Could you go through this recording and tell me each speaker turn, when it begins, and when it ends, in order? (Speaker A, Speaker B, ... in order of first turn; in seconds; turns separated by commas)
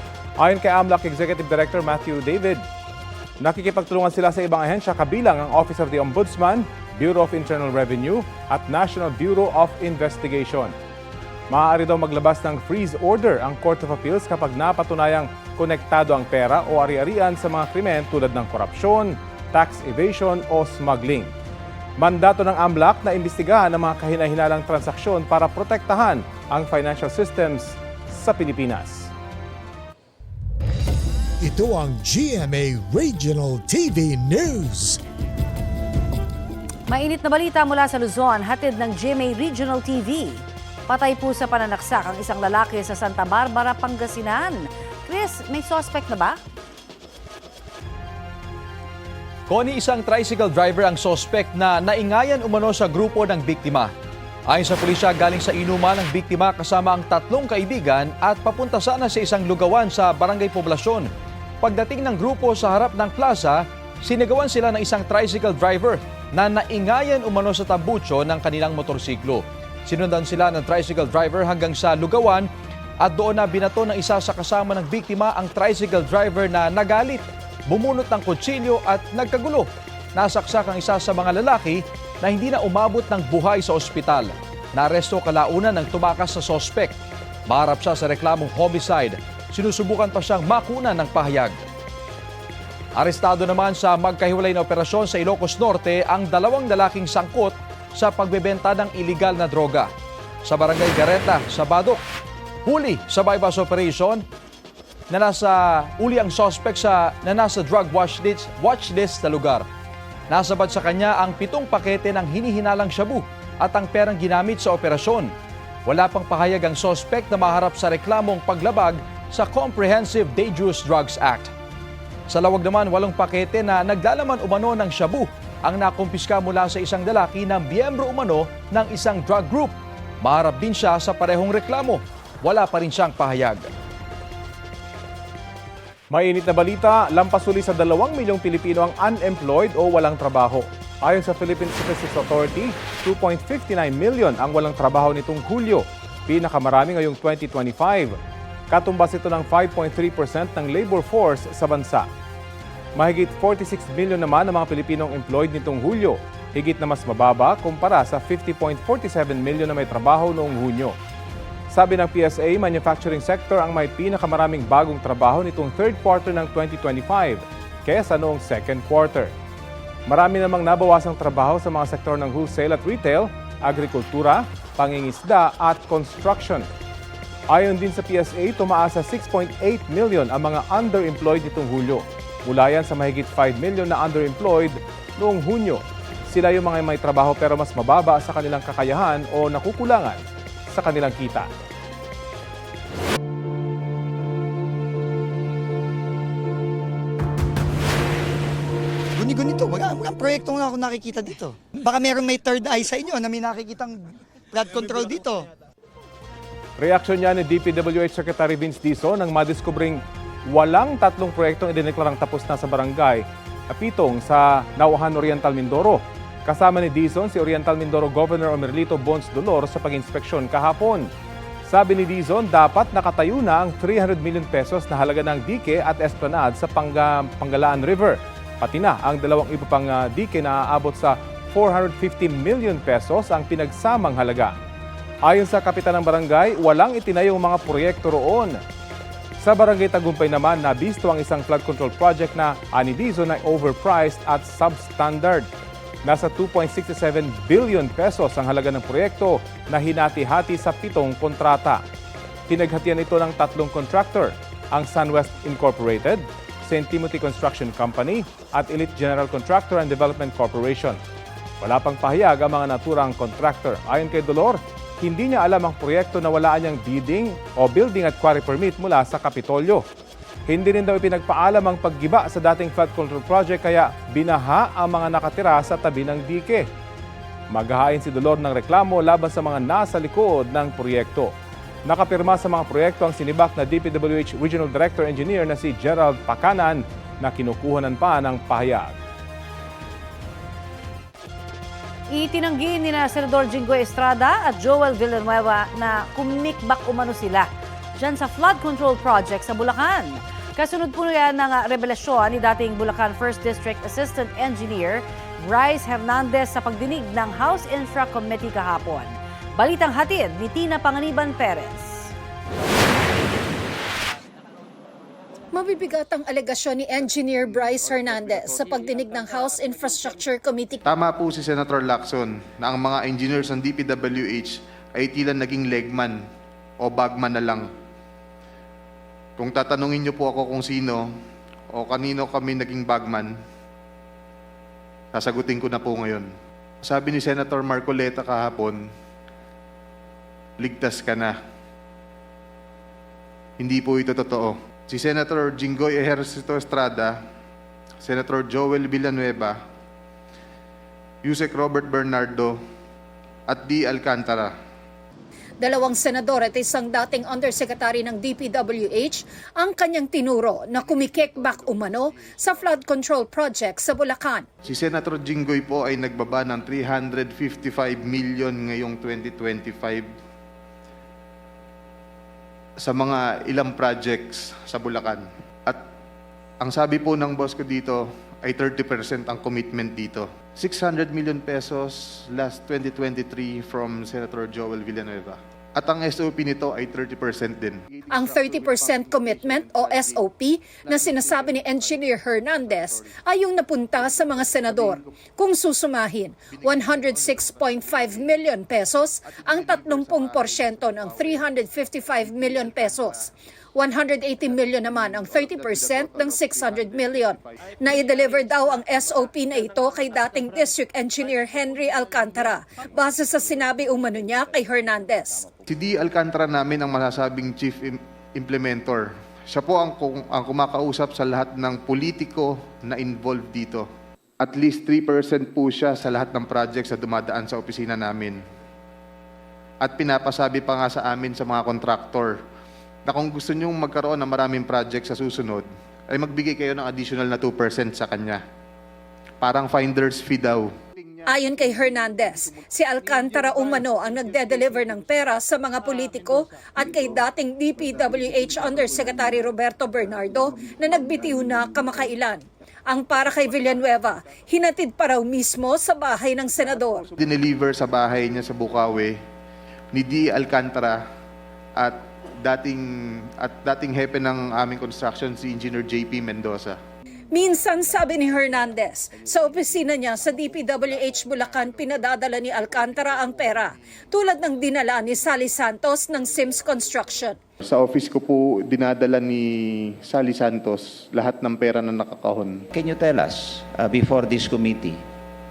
Speaker A: 0.4-2.6, Speaker A: 3.4-10.7, Speaker A: 11.5-21.3, Speaker A: 22.0-29.1, Speaker B: 31.4-35.0, Speaker C: 36.9-46.4, Speaker C: 49.5-53.9, Speaker C: 54.5-61.1, Speaker C: 61.6-72.5, Speaker C: 73.0-91.6, Speaker C: 93.0-99.9, Speaker C: 100.4-102.0, Speaker C: 102.7-104.2, Speaker C: 105.1-109.7, Speaker C: 110.3-115.3, Speaker C: 115.8-121.5, Speaker C: 122.3-133.7, Speaker A: 136.1-148.2, Speaker A: 148.7-152.1, Speaker A: 152.9-160.9, Speaker A: 161.7-169.3, Speaker A: 170.1-176.7, Speaker A: 177.5-191.5, Speaker D: 199.1-205.4, Speaker A: 206.8-221.1, Speaker A: 221.7-234.5, Speaker A: 235.2-238.6, Speaker A: 239.4-245.5, Speaker A: 246.0-251.8, Speaker A: 252.5-261.0, Speaker A: 261.6-269.8, Speaker A: 270.5-276.7, Speaker A: 277.5-281.3, Speaker A: 281.9-288.9, Speaker E: 292.1-311.9, Speaker F: 315.5-320.8, Speaker G: 320.9-326.2, Speaker G: 326.8-327.7, Speaker G: 329.4-331.0, Speaker G: 331.7-333.3, Speaker G: 335.1-336.3, Speaker G: 336.8-338.8, Speaker G: 340.6-341.3, Speaker G: 343.6-347.1, Speaker G: 348.0-349.6, Speaker G: 351.2-352.5, Speaker G: 353.5-354.5, Speaker F: 355.6-364.4, Speaker G: 360.8-362.7, Speaker G: 364.6-370.1, Speaker G: 372.8-375.8, Speaker G: 376.6-390.2, Speaker F: 388.1-415.4, Speaker G: 390.8-392.0, Speaker G: 392.6-393.1, Speaker G: 394.0-395.0, Speaker G: 396.5-398.4, Speaker G: 399.3-403.3, Speaker G: 404.5-408.2, Speaker G: 415.7-423.9, Speaker G: 424.4-428.4, Speaker G: 429.8-432.4, Speaker G: 433.1-438.4, Speaker G: 439.4-442.4, Speaker F: 441.2-457.1, Speaker G: 456.6-459.1, Speaker G: 459.9-461.0, Speaker G: 461.8-462.8, Speaker G: 463.4-466.8, Speaker F: 467.3-477.4, Speaker G: 470.2-471.8, Speaker G: 472.7-473.6, Speaker G: 477.6-482.6, Speaker H: 482.7-485.0